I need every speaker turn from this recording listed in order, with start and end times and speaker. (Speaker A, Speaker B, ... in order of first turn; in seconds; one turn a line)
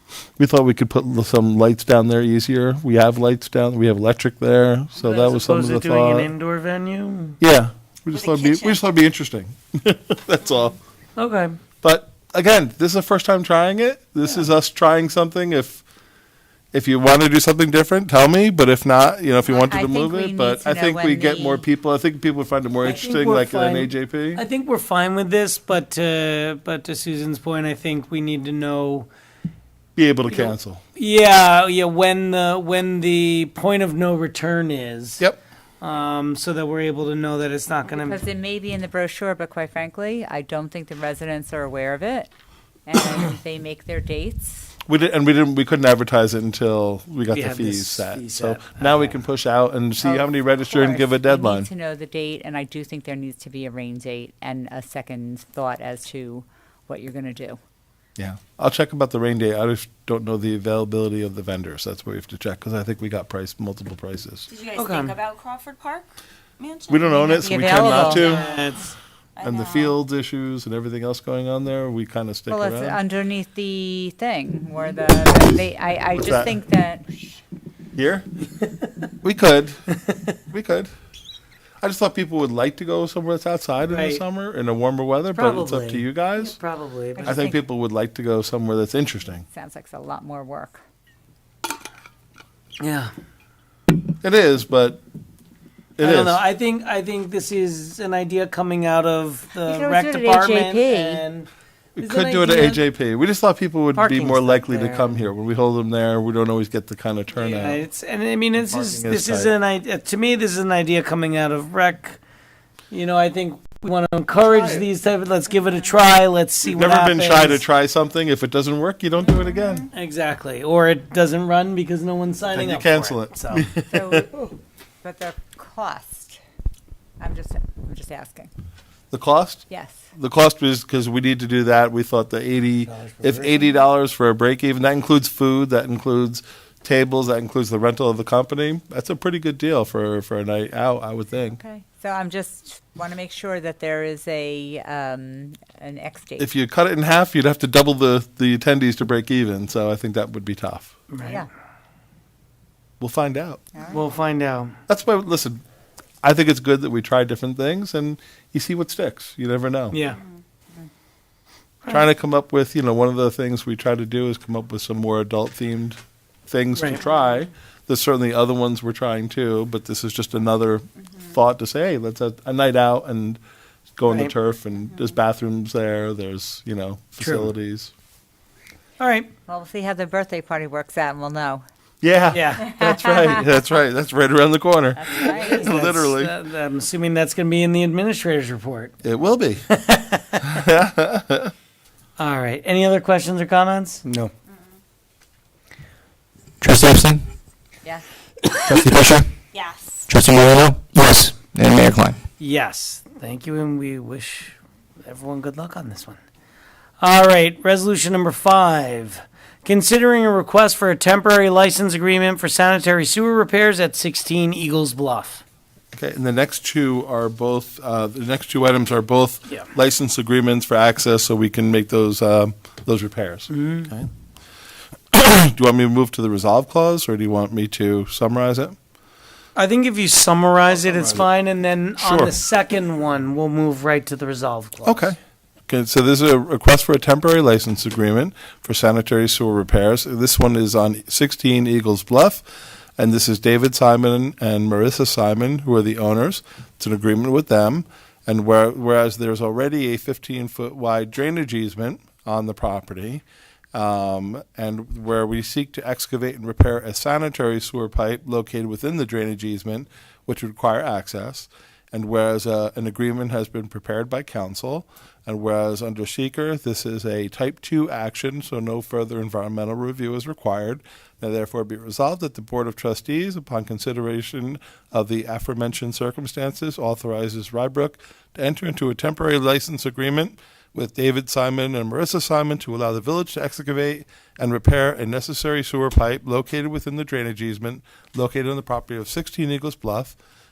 Speaker A: 0.4-6.3
Speaker B: 5.0-7.4
Speaker A: 7.4-10.8
Speaker C: 8.1-8.8
Speaker B: 11.2-11.6
Speaker A: 11.8-15.8
Speaker A: 16.7-24.4
Speaker D: 19.4-21.6
Speaker B: 22.8-29.1
Speaker A: 29.9-30.8
Speaker B: 30.3-35.2
Speaker B: 35.8-38.2
Speaker D: 37.9-42.3
Speaker D: 42.9-44.7
Speaker A: 44.9-51.7
Speaker B: 47.3-49.2
Speaker D: 50.0-57.6
Speaker A: 58.2-64.5
Speaker C: 64.5-66.1
Speaker B: 64.8-65.1
Speaker C: 66.6-67.7
Speaker A: 66.9-68.5
Speaker D: 67.2-68.3
Speaker B: 67.7-68.9
Speaker C: 69.3-70.0
Speaker A: 69.4-73.0
Speaker D: 72.5-77.4
Speaker A: 76.2-76.5
Speaker A: 77.9-78.2
Speaker A: 79.2-79.9
Speaker A: 80.5-80.9
Speaker A: 81.8-86.5
Speaker B: 83.9-84.2
Speaker B: 85.3-87.5
Speaker D: 87.2-87.6
Speaker A: 87.2-89.4
Speaker D: 89.5-90.8
Speaker B: 92.8-93.1
Speaker A: 94.2-95.0
Speaker A: 96.0-96.4
Speaker B: 96.0-101.5
Speaker D: 99.6-101.2
Speaker A: 102.0-107.8
Speaker B: 102.0-102.8
Speaker B: 103.9-105.2
Speaker B: 107.3-112.2
Speaker A: 108.6-109.5
Speaker B: 112.9-117.6
Speaker A: 114.4-114.8
Speaker A: 116.7-119.9
Speaker B: 119.9-123.7
Speaker A: 122.5-124.3
Speaker D: 123.9-124.3
Speaker D: 125.0-126.4
Speaker D: 127.2-128.5
Speaker A: 129.1-141.6
Speaker D: 129.7-130.1
Speaker B: 132.8-133.7
Speaker D: 141.5-146.5
Speaker A: 146.4-150.9
Speaker B: 151.1-151.4
Speaker A: 153.0-153.6
Speaker B: 153.9-154.8
Speaker A: 154.9-155.6
Speaker A: 156.2-160.0
Speaker B: 159.9-160.2
Speaker C: 160.1-160.4
Speaker A: 161.9-173.4
Speaker B: 166.7-167.0
Speaker A: 174.0-177.9
Speaker B: 174.1-174.3
Speaker B: 177.2-177.5
Speaker B: 179.0-179.3
Speaker D: 179.5-181.6
Speaker A: 182.0-186.3
Speaker B: 182.3-182.7
Speaker D: 182.7-183.4
Speaker D: 184.9-185.7
Speaker B: 185.2-188.9
Speaker A: 189.0-189.7
Speaker B: 189.7-190.6
Speaker A: 190.4-191.5
Speaker B: 192.2-194.0
Speaker E: 196.6-197.2
Speaker D: 197.8-198.5
Speaker E: 198.6-199.3
Speaker C: 199.5-200.1
Speaker E: 200.1-202.2
Speaker B: 202.4-206.2
Speaker B: 207.0-215.4
Speaker A: 215.9-224.1
Speaker B: 223.5-223.9
Speaker A: 225.1-228.8
Speaker B: 229.6-235.1
Speaker A: 230.8-231.3
Speaker A: 232.0-232.3
Speaker A: 234.8-235.2
Speaker A: 235.7-242.4
Speaker A: 243.0-290.1